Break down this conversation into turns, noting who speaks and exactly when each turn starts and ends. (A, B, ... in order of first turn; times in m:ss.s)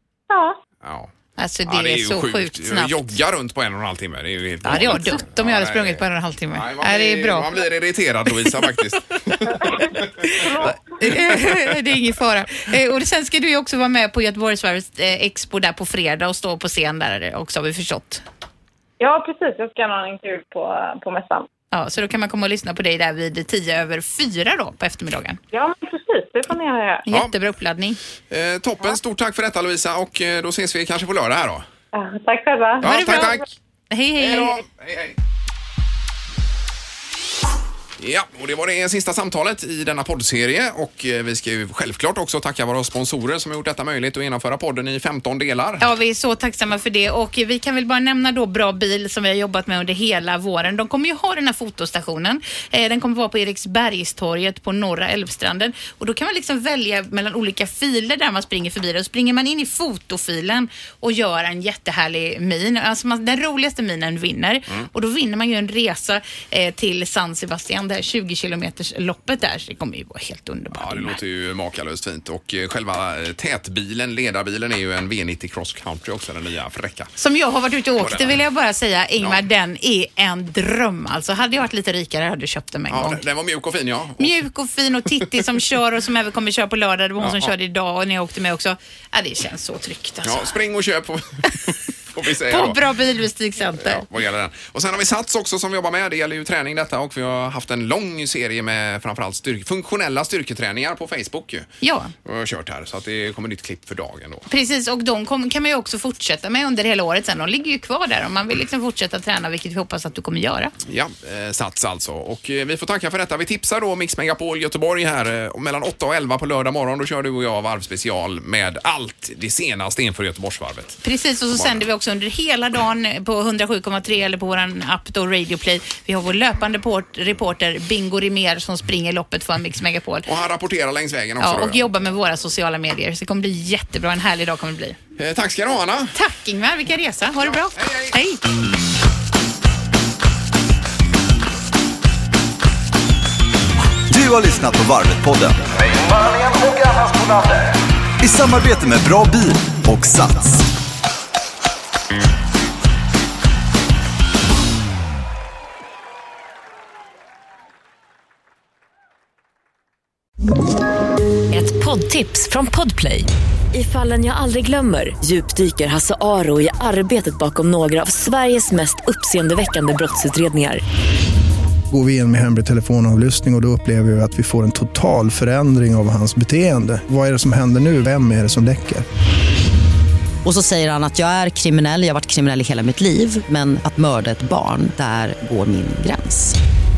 0:00.3-0:00.6 A
0:00.8-0:01.1 B
0:01.4-0:03.2 C
0:01.7-0:10.1 B
0:04.6-0:07.6 C
0:09.5-0:10.8 A
0:10.2-0:18.2 C
0:19.0-0:21.5 A
0:21.7-0:25.4 C
0:25.5-0:27.0 A
0:27.1-0:28.0 C
0:28.3-0:31.7 B
0:31.9-0:32.9 A
0:32.8-0:33.4 B
0:32.8-0:34.6 C
0:34.2-0:35.2 B
0:38.0-0:45.9 B
0:45.8-1:11.2 C
1:10.7-1:17.1 B
1:17.2-1:23.2 C
1:18.0-1:18.4 B
1:22.9-1:24.3 B
1:24.2-1:30.5 C
1:27.2-1:27.5 B
1:30.2-1:32.8 B
1:32.5-1:34.1 C
1:33.8-1:41.7 B
1:41.8-1:42.1 C
1:42.2-1:44.5 B
1:44.5-1:50.7 C
1:50.8-2:01.8 B
2:01.0-2:10.3 C
2:10.3-2:11.8 B
2:11.4-2:15.0 C
2:15.2-2:16.2 B
2:16.2-2:18.4 C
2:17.7-2:18.2 B
2:24.1-2:25.8 D
2:28.2-2:30.7 D
2:41.5-2:50.8 E
2:51.9-2:59.0 F
3:00.4-3:06.6 G